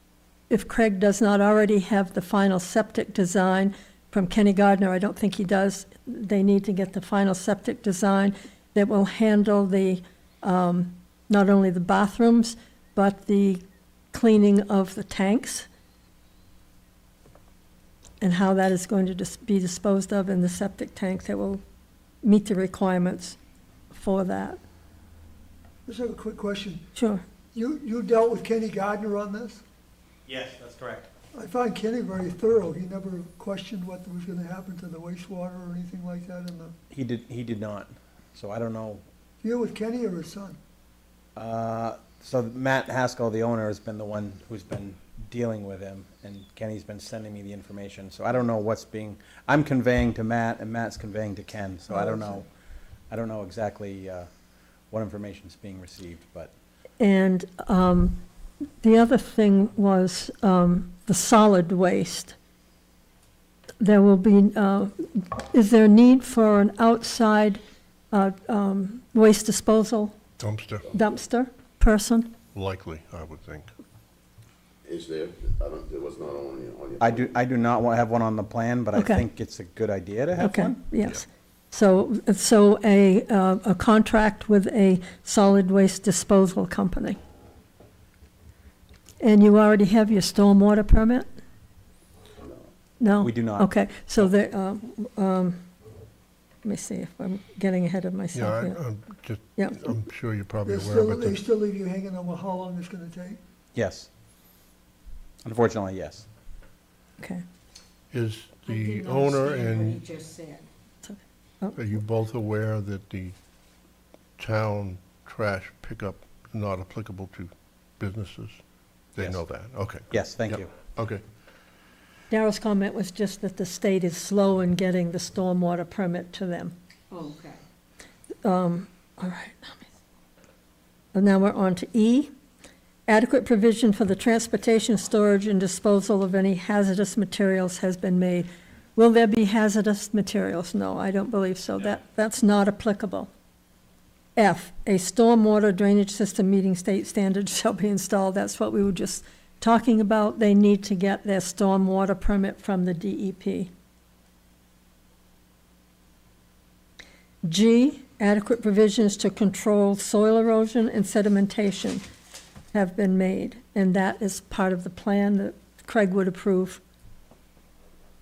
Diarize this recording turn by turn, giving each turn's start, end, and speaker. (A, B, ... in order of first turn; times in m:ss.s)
0:00.5-0:15.7 A
0:18.2-0:21.6 A
0:22.2-0:23.4 A
0:23.9-0:24.6 A
0:25.8-0:26.8 B
0:26.9-0:27.2 A
0:27.5-0:29.6 B
0:30.2-0:31.1 C
0:31.3-0:36.7 B
0:36.9-0:39.0 C
0:39.4-0:40.6 B
0:41.4-0:52.5 C
0:52.0-0:52.3 B
0:53.1-0:54.3 C
0:54.9-0:56.5 C
0:57.0-0:58.2 A
0:58.8-1:02.4 A
1:03.8-1:07.6 A
1:08.1-1:10.1 A
1:10.4-1:10.9 D
1:10.9-1:12.3 A
1:12.5-1:13.7 D
1:14.8-1:17.4 E
1:17.0-1:20.8 C
1:18.9-1:19.2 A
1:20.4-1:27.2 A
1:29.2-1:31.3 A
1:33.0-1:35.6 A
1:33.2-1:34.3 C
1:36.6-1:38.8 A
1:38.3-1:41.4 D
1:40.6-1:43.4 B
1:43.7-1:44.1 C
1:45.4-1:46.2 C
1:48.1-1:50.0 D
1:48.6-1:50.7 F
1:51.0-1:51.8 A
1:51.7-1:53.3 D
1:54.4-1:58.6 D
1:59.1-2:01.2 D
2:00.1-2:00.7 C
2:02.3-2:06.7 A
2:07.1-2:07.6 F
2:08.4-2:09.8 A
2:11.1-2:12.3 A
2:13.1-2:23.3 A
2:24.4-2:33.7 A
2:37.4-2:42.0 A
2:42.7-2:46.8 A